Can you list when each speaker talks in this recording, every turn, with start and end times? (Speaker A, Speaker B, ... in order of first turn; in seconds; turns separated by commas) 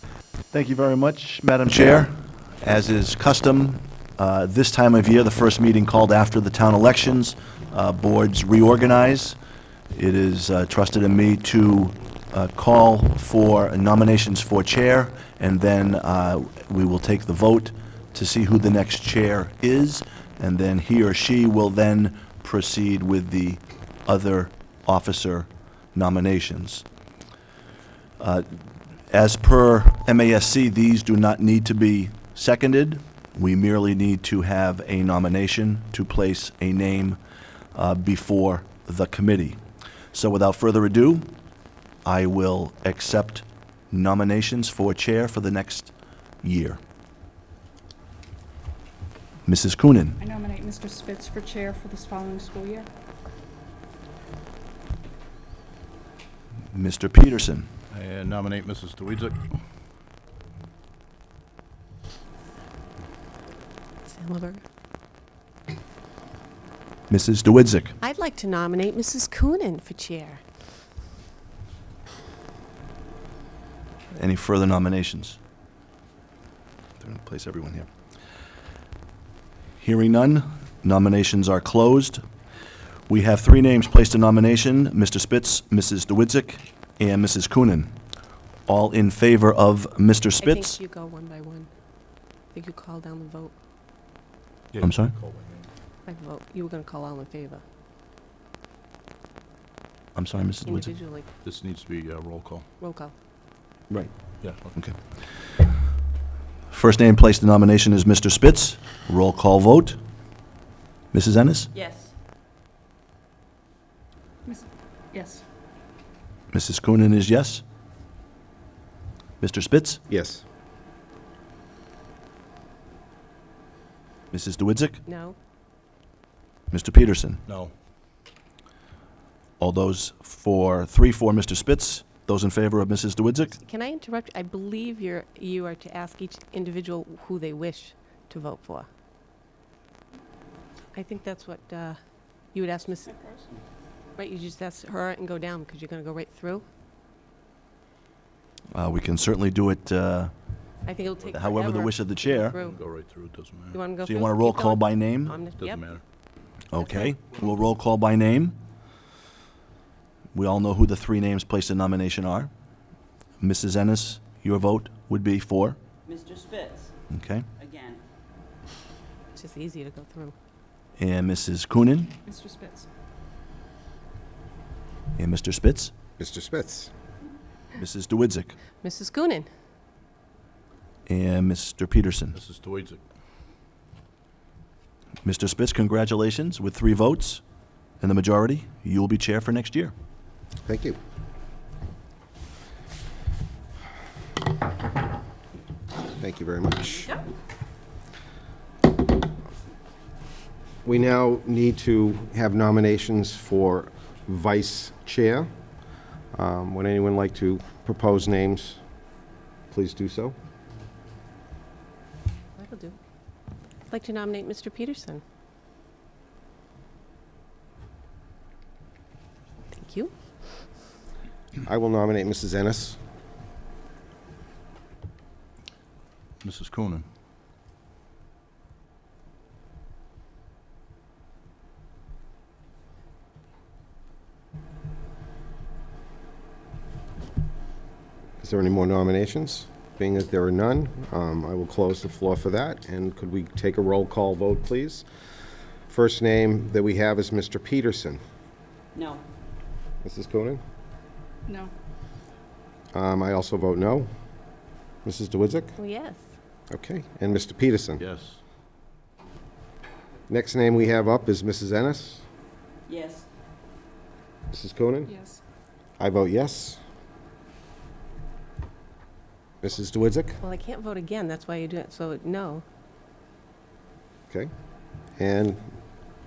Speaker A: 0.5-9.4, Speaker A: 9.9-26.9, Speaker A: 28.2-28.5, Speaker A: 29.1-37.2, Speaker A: 37.8-39.6, Speaker A: 40.1-41.3, Speaker A: 42.0-45.9, Speaker A: 46.4-46.8, Speaker A: 49.5-50.2, Speaker B: 50.2-52.9, Speaker A: 56.7-57.7, Speaker C: 57.9-59.6, Speaker D: 64.1-64.6, Speaker A: 67.1-67.9, Speaker D: 68.0-70.4, Speaker A: 74.1-75.4, Speaker A: 77.0-77.9, Speaker A: 79.8-82.2, Speaker A: 83.1-88.0, Speaker A: 88.7-90.8, Speaker D: 90.4-91.7, Speaker D: 92.5-93.5, Speaker C: 94.7-95.7, Speaker A: 94.8-95.1, Speaker D: 96.0-97.6, Speaker A: 100.2-100.9, Speaker D: 100.6-101.3, Speaker C: 101.4-102.7, Speaker D: 102.8-103.1, Speaker C: 104.4-104.7, Speaker A: 106.7-110.0, Speaker A: 111.1-111.7, Speaker B: 114.5-115.4, Speaker A: 116.5-117.6, Speaker A: 119.4-120.0, Speaker E: 120.1-120.4, Speaker A: 124.3-125.0, Speaker D: 125.1-125.4, Speaker A: 126.7-127.4, Speaker C: 127.5-127.7, Speaker A: 129.6-133.6, Speaker D: 133.6-138.9, Speaker D: 140.9-142.0, Speaker D: 142.5-143.2, Speaker D: 144.2-146.7, Speaker A: 148.7-150.3, Speaker D: 150.8-152.8, Speaker A: 151.3-152.6, Speaker C: 152.6-153.8, Speaker D: 153.7-155.9, Speaker A: 154.0-155.4, Speaker C: 155.6-156.0, Speaker A: 156.7-158.6, Speaker A: 160.3-162.5, Speaker A: 163.4-165.8, Speaker F: 166.1-166.9, Speaker A: 167.1-167.5, Speaker F: 167.6-168.0, Speaker D: 169.3-170.3, Speaker A: 171.0-172.1, Speaker B: 172.2-172.9, Speaker A: 175.2-175.9, Speaker E: 176.2-176.9, Speaker A: 177.8-178.6, Speaker D: 178.8-179.5, Speaker A: 181.1-182.4, Speaker C: 182.3-183.0, Speaker A: 185.2-187.4, Speaker A: 188.0-189.9, Speaker E: 190.7-191.0, Speaker E: 196.2-197.1, Speaker E: 200.8-205.5, Speaker E: 206.3-208.8, Speaker E: 209.7-210.3, Speaker D: 212.6-213.0, Speaker D: 213.9-215.2, Speaker D: 219.7-220.1, Speaker E: 221.7-223.0, Speaker C: 226.4-227.1, Speaker E: 238.4-245.1, Speaker E: 245.9-248.2, Speaker F: 249.0-249.2, Speaker E: 250.0-250.6, Speaker B: 251.5-251.7, Speaker E: 252.9-254.1, Speaker E: 255.1-255.8, Speaker D: 255.8-256.2, Speaker E: 256.7-258.0, Speaker C: 258.0-258.4, Speaker E: 260.3-262.2, Speaker F: 262.9-263.2, Speaker E: 264.5-265.1, Speaker B: 265.1-265.4, Speaker E: 266.0-266.8, Speaker E: 269.6-270.4, Speaker D: 270.4-272.6, Speaker E: 275.2-275.6